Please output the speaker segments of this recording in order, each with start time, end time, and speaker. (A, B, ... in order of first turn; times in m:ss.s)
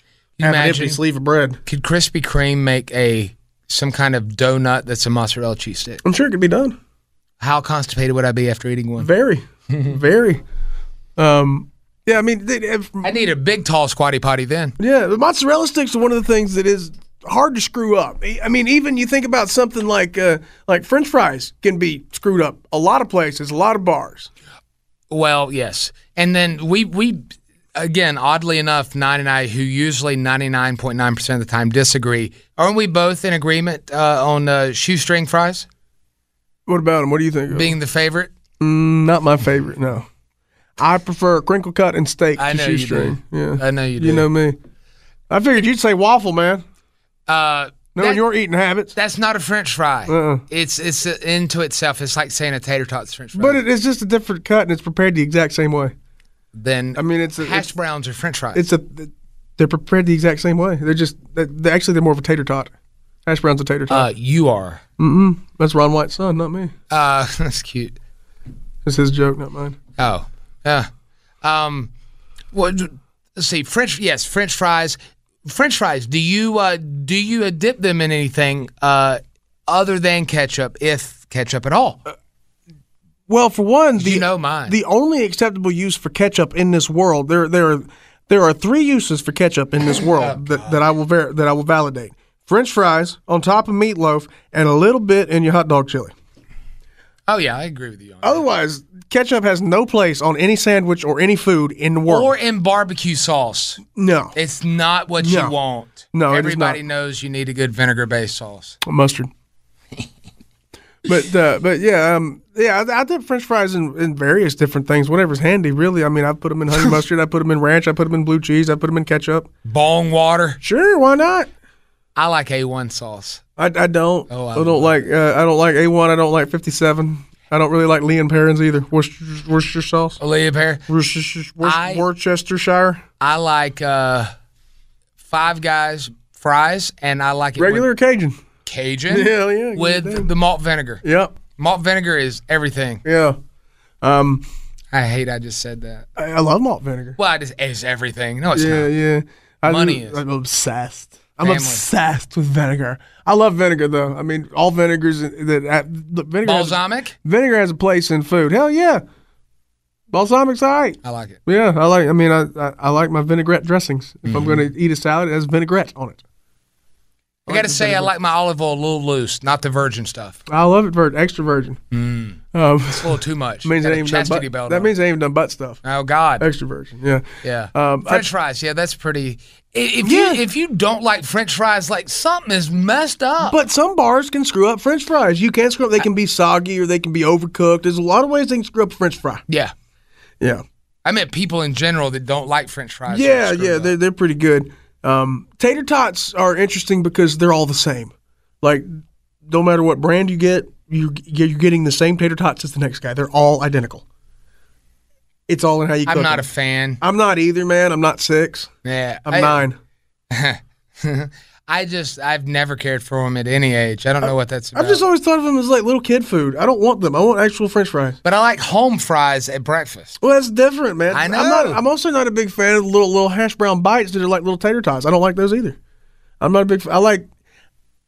0:00.4-0:01.0 A
0:00.4-0:01.6 B
0:01.6-0:06.0 A
0:06.0-0:06.8 B
0:07.4-0:09.1 A
0:09.0-0:10.4 B
0:09.7-0:10.0 A
0:11.2-0:13.1 B
0:13.0-0:14.7 A
0:14.8-0:24.3 B
0:25.1-0:35.6 A
0:36.7-0:37.7 B
0:37.5-0:38.3 A
0:38.6-0:40.1 B
0:40.8-0:44.6 B
0:42.4-0:44.3 A
0:45.3-0:46.6 B
0:47.3-0:48.2 A
0:47.9-0:48.9 B
0:48.9-0:53.6 A
0:50.1-0:50.4 B
0:53.4-0:55.9 B
0:56.6-0:58.6 A
0:56.9-0:57.7 B
0:58.5-1:02.7 B
1:03.2-1:04.1 B
1:03.9-1:04.8 A
1:05.0-1:06.7 B
1:06.9-1:08.0 A
1:08.8-1:09.8 B
1:10.0-1:10.9 A
1:11.4-1:11.9 A
1:12.5-1:22.0 A
1:23.3-1:36.1 B
1:24.0-1:24.8 A
1:30.1-1:30.8 A
1:37.3-1:38.4 A
1:38.2-1:42.3 B
1:42.1-1:43.8 A
1:43.9-1:44.4 B
1:44.4-1:48.8 A
1:45.2-1:45.6 B
1:46.1-1:46.8 B
1:48.9-1:49.3 B
1:51.1-1:59.5 B
1:59.6-2:00.6 A
2:00.6-2:01.5 B
2:02.2-2:03.4 A
2:03.6-2:10.2 B
2:04.3-2:05.0 A
2:10.2-2:10.8 A
2:10.9-2:13.0 B
2:11.6-2:12.1 A
2:13.2-2:14.3 A
2:15.3-2:17.9 A
2:17.6-2:18.4 B
2:18.6-2:21.0 A
2:19.1-2:20.3 B
2:21.0-2:21.3 B
2:21.6-2:23.0 A
2:23.0-2:23.4 B
2:24.0-2:24.4 B
2:24.9-2:26.1 A
2:26.2-2:27.2 B
2:27.2-2:28.9 A
2:28.6-2:39.0 B
2:29.6-2:30.2 A
2:31.4-2:31.8 A
2:36.4-2:37.2 A
2:40.1-2:46.2 B
2:41.0-2:41.4 A
2:44.2-2:44.7 A
2:47.4-2:48.1 B
2:47.5-2:50.4 A
2:50.5-2:51.8 B
2:51.9-2:54.9 A
2:52.5-2:55.8 B
2:55.8-2:56.5 A
2:56.4-2:58.3 B
2:57.4-3:03.6 A
3:00.0-3:00.4 B
3:03.4-3:09.4 B
3:09.5-3:09.7 A
3:11.0-3:13.9 A
3:13.1-3:18.9 B
3:19.4-3:24.0 B
3:25.5-3:26.5 B
3:26.1-3:27.0 A
3:27.0-3:28.7 B
3:28.8-3:29.6 A
3:29.2-3:29.8 B
3:30.3-3:35.0 A
3:34.2-3:38.2 B
3:38.2-3:40.2 A
3:40.2-3:45.8 B
3:41.1-3:41.8 A
3:46.4-3:47.3 B